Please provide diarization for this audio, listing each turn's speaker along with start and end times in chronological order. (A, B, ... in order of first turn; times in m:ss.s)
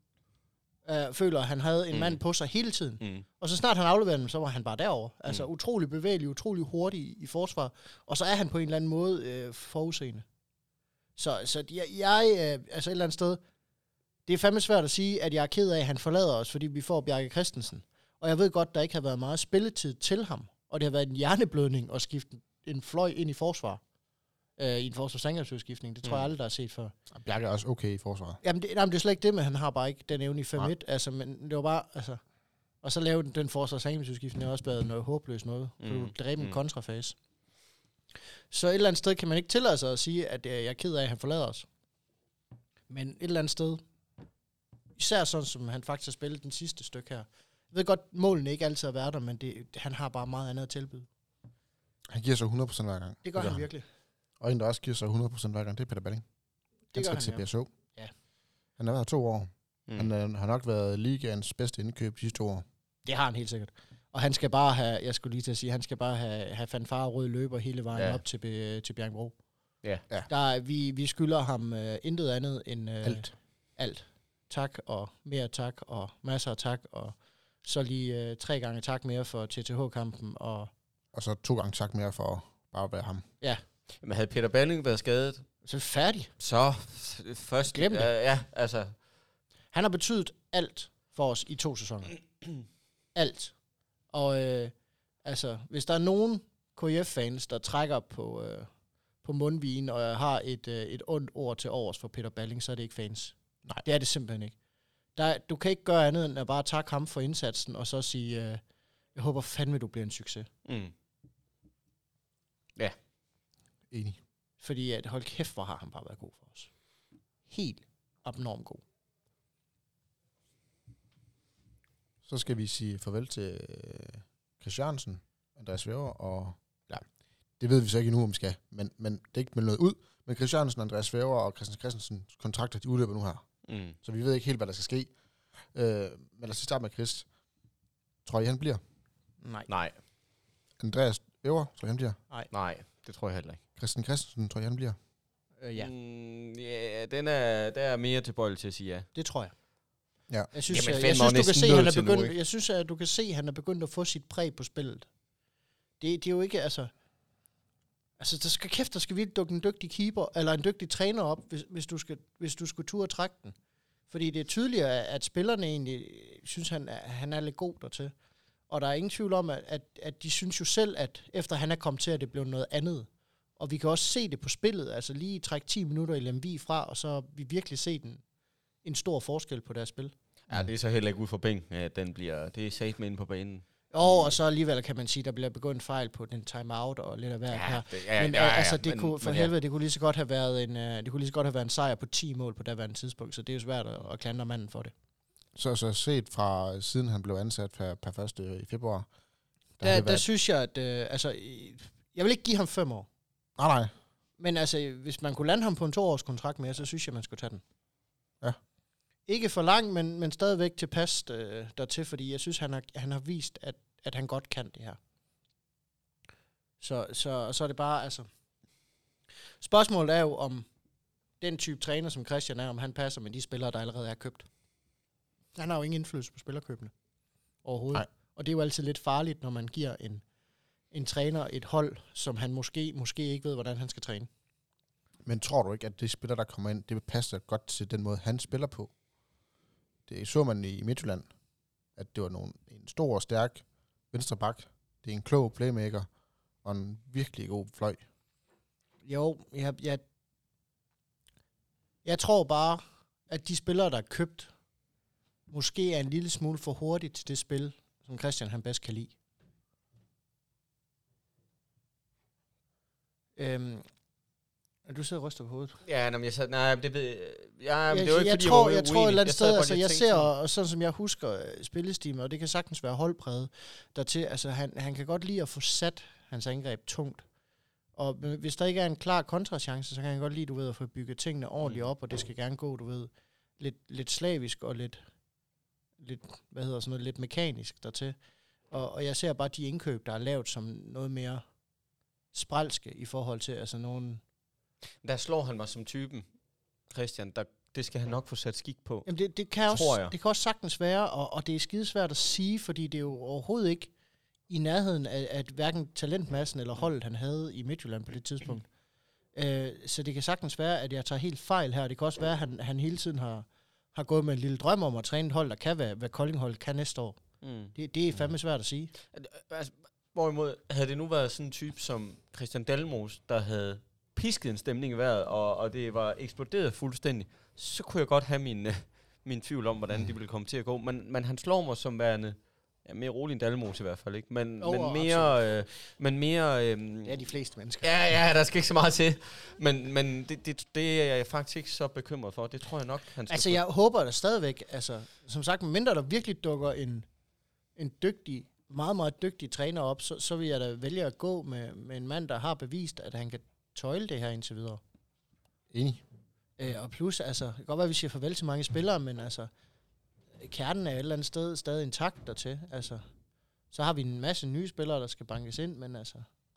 0:00.9-0:10.2 A
0:01.9-0:02.2 B
0:11.2-0:13.4 A
0:14.3-0:23.8 A
0:24.6-0:26.9 A
0:26.0-0:26.3 B
0:27.1-0:28.4 C
0:28.4-0:32.2 A
0:32.8-0:37.2 A
0:35.8-0:36.6 B
0:38.5-0:41.7 A
0:42.9-0:43.8 A
0:45.0-0:51.1 A
0:52.1-0:53.7 C
0:53.2-0:53.9 A
0:54.4-0:56.2 C
0:56.9-0:57.4 A
0:57.0-0:57.7 C
0:58.8-1:02.6 C
1:03.0-1:09.4 A
1:10.3-1:20.7 A
1:13.0-1:13.3 C
1:21.1-1:23.2 C
1:24.0-1:25.4 B
1:25.6-1:26.3 A
1:26.4-1:28.9 B
1:27.7-1:28.1 A
1:29.7-1:32.2 A
1:33.2-1:33.5 A
1:34.1-1:34.7 A
1:35.2-1:38.7 A
1:39.2-1:44.6 A
1:45.2-1:48.6 A
1:49.2-1:50.5 A
1:50.7-1:50.9 B
1:53.9-1:54.2 C
1:54.6-1:56.7 A
1:57.5-1:58.8 A
2:02.2-2:07.0 C
2:07.6-2:13.4 C
2:13.7-2:14.0 B
2:14.0-2:15.1 C
2:15.7-2:17.3 C
2:18.2-2:18.8 C
2:19.4-2:19.7 A
2:19.7-2:20.0 B
2:20.8-2:22.2 C
2:22.5-2:23.6 B
2:23.8-2:25.0 C
2:25.6-2:25.9 A
2:25.8-2:29.1 B
2:29.2-2:29.5 A
2:30.5-2:35.1 A
2:30.7-2:32.3 B
2:36.0-2:36.9 A
2:38.2-2:43.6 A
2:44.1-2:48.1 A
2:48.7-2:58.2 A
2:58.8-3:00.1 A
3:00.5-3:04.3 B
3:03.9-3:14.9 A
3:07.5-3:09.5 B
3:15.6-3:19.1 C
3:19.8-3:20.2 C
3:19.8-3:23.1 A
3:23.6-3:23.9 C
3:24.4-3:27.6 A
3:29.3-3:35.0 A
3:36.8-3:38.3 A
3:39.6-3:40.7 A
3:41.4-3:44.5 A
3:45.6-3:46.9 A
3:47.6-3:50.2 A
3:50.9-3:54.3 A
3:55.3-3:58.9 C
4:00.1-4:01.3 C
4:02.0-4:06.1 C
4:06.6-4:08.0 C
4:09.0-4:10.0 A
4:12.0-4:14.5 A
4:15.5-4:19.1 A
4:23.4-4:23.9 A
4:24.9-4:25.8 A
4:25.8-4:30.3 B
4:27.9-4:37.2 A
4:38.0-4:45.0 A
4:46.0-4:48.2 A
4:48.7-4:51.4 A
4:52.3-4:54.2 A
4:55.0-4:56.3 B
4:56.9-4:59.1 B
4:59.1-5:03.9 A
4:59.7-5:00.1 B
5:04.5-5:08.7 A
5:09.4-5:17.2 A
5:17.4-5:17.7 B
5:17.7-5:18.9 A
5:19.1-5:37.2 B
5:34.6-5:35.4 A
5:37.0-5:37.9 A
5:37.8-5:43.6 B
5:43.3-5:47.1 A
5:47.8-5:54.8 A
5:55.7-5:56.0 C
5:56.6-5:59.5 A
6:00.4-6:03.0 A
6:03.7-6:06.3 A